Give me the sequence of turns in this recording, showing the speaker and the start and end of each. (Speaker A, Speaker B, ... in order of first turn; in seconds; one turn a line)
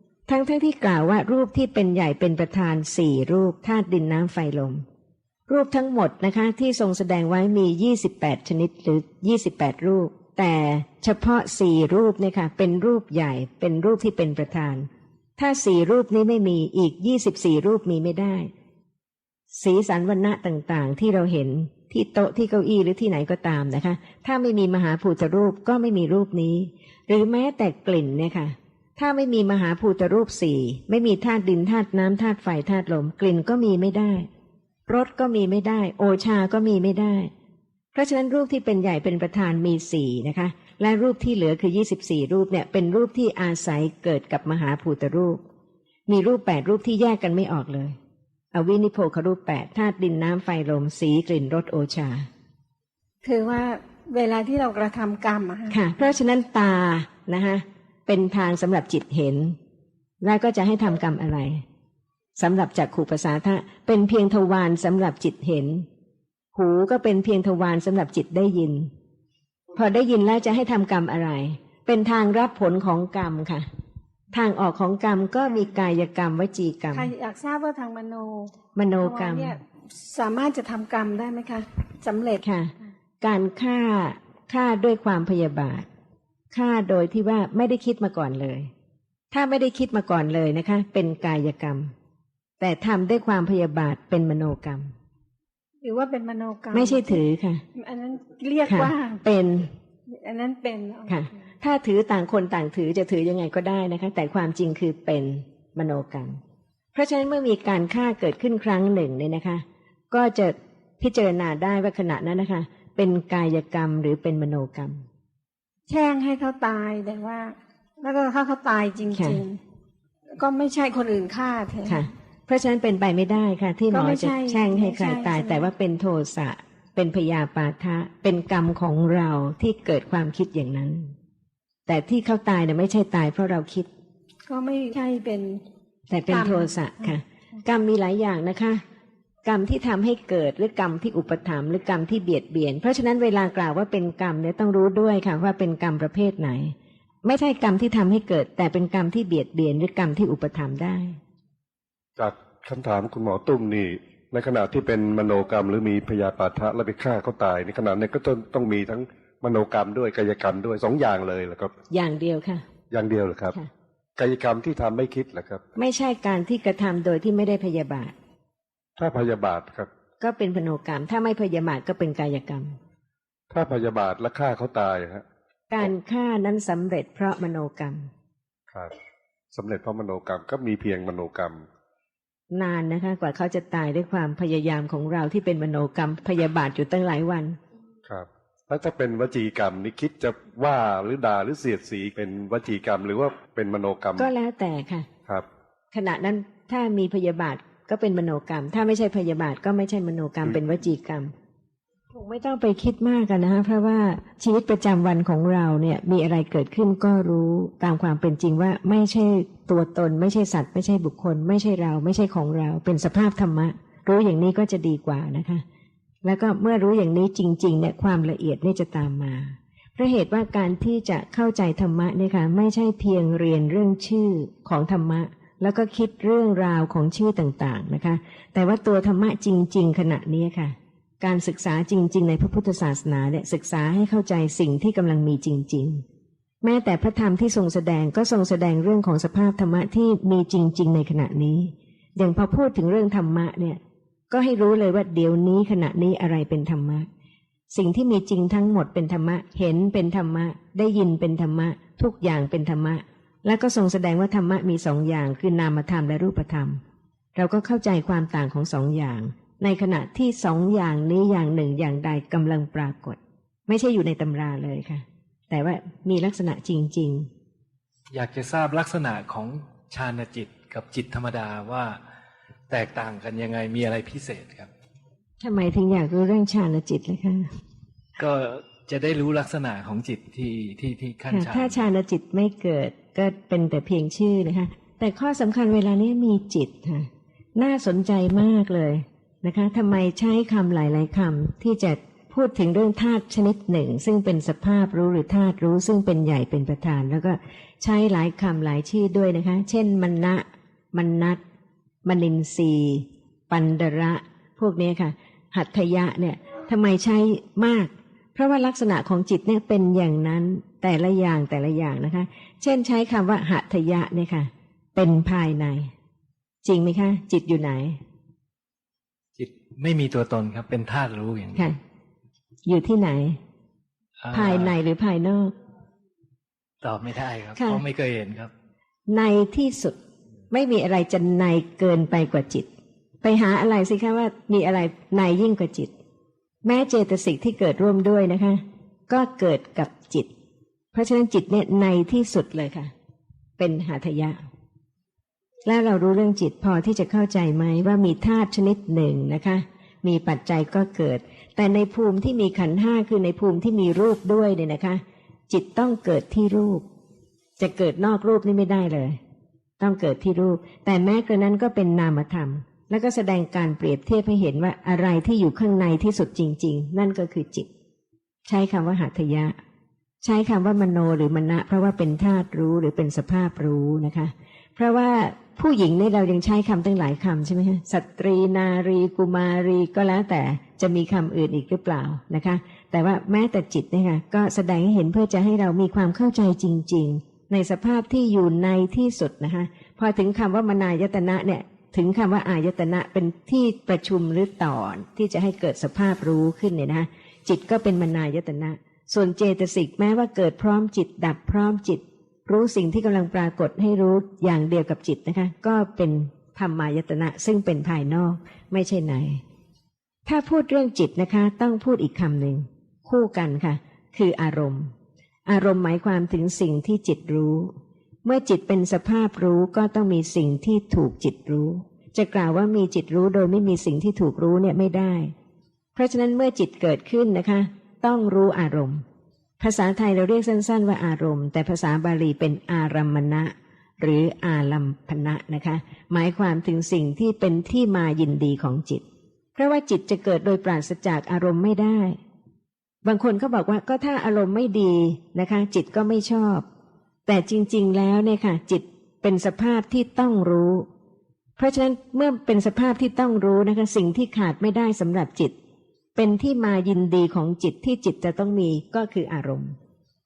Speaker A: 0.3-4.8
Speaker A: 5.5-18.5
Speaker A: 19.5-34.3
Speaker A: 34.9-37.3
Speaker A: 37.9-45.4
Speaker A: 46.1-48.0
Speaker A: 48.5-52.3
Speaker B: 53.2-55.8
Speaker A: 55.7-59.5
Speaker A: 60.2-61.6
Speaker A: 62.4-65.8
Speaker A: 66.5-68.9
Speaker A: 69.7-73.7
Speaker A: 74.3-77.1
Speaker B: 76.9-82.4
Speaker A: 78.7-79.5
Speaker A: 82.4-85.9
Speaker A: 86.5-88.7
Speaker A: 89.3-91.9
Speaker A: 92.6-94.9
Speaker B: 95.8-97.2
Speaker A: 96.7-97.6
Speaker B: 97.7-99.2
Speaker A: 98.7-99.7
Speaker B: 100.1-101.1
Speaker A: 101.0-106.4
Speaker A: 106.9-115.0
Speaker B: 115.9-119.6
Speaker A: 119.1-119.4
Speaker B: 120.3-122.1
Speaker A: 121.8-131.1
Speaker B: 123.9-125.7
Speaker A: 131.9-133.9
Speaker B: 134.5-135.6
Speaker A: 136.1-138.8
Speaker B: 136.3-137.2
Speaker A: 139.4-151.2
Speaker C: 152.2-161.7
Speaker A: 161.9-162.6
Speaker C: 162.9-163.6
Speaker C: 164.2-165.6
Speaker A: 165.8-168.1
Speaker C: 169.0-169.9
Speaker A: 170.2-172.8
Speaker C: 173.5-175.2
Speaker A: 175.7-178.1
Speaker C: 179.5-181.6
Speaker A: 182.5-187.6
Speaker C: 188.1-194.3
Speaker A: 194.2-195.1
Speaker A: 195.9-201.3
Speaker A: 202.1-215.6
Speaker A: 216.2-236.0
Speaker A: 236.6-243.8
Speaker A: 244.3-247.1
Speaker A: 247.7-256.8
Speaker A: 257.3-267.3
Speaker D: 268.1-272.0
Speaker D: 272.7-274.7
Speaker A: 275.4-277.5
Speaker D: 278.2-281.9
Speaker A: 281.3-301.4
Speaker A: 302.0-315.9
Speaker A: 316.6-318.0
Speaker D: 319.4-321.7
Speaker A: 322.6-323.4
Speaker D: 324.2-324.7
Speaker A: 324.3-325.5
Speaker D: 326.8-328.5
Speaker A: 327.6-327.8
Speaker A: 329.1-330.0
Speaker A: 330.5-332.7
Speaker A: 333.2-335.9
Speaker A: 336.6-340.3
Speaker A: 340.9-342.9
Speaker A: 343.6-344.4
Speaker A: 345.6-356.8
Speaker A: 357.6-359.2
Speaker A: 359.8-367.7
Speaker A: 368.4-369.6
Speaker A: 370.2-409.4
Speaker A: 410.2-414.9
Speaker A: 415.5-417.7
Speaker A: 418.2-425.3
Speaker A: 425.9-429.0
Speaker A: 429.6-439.0
Speaker A: 439.6-442.2
Speaker A: 443.0-446.6
Speaker A: 447.2-450.9
Speaker A: 451.6-455.5
Speaker A: 456.1-459.8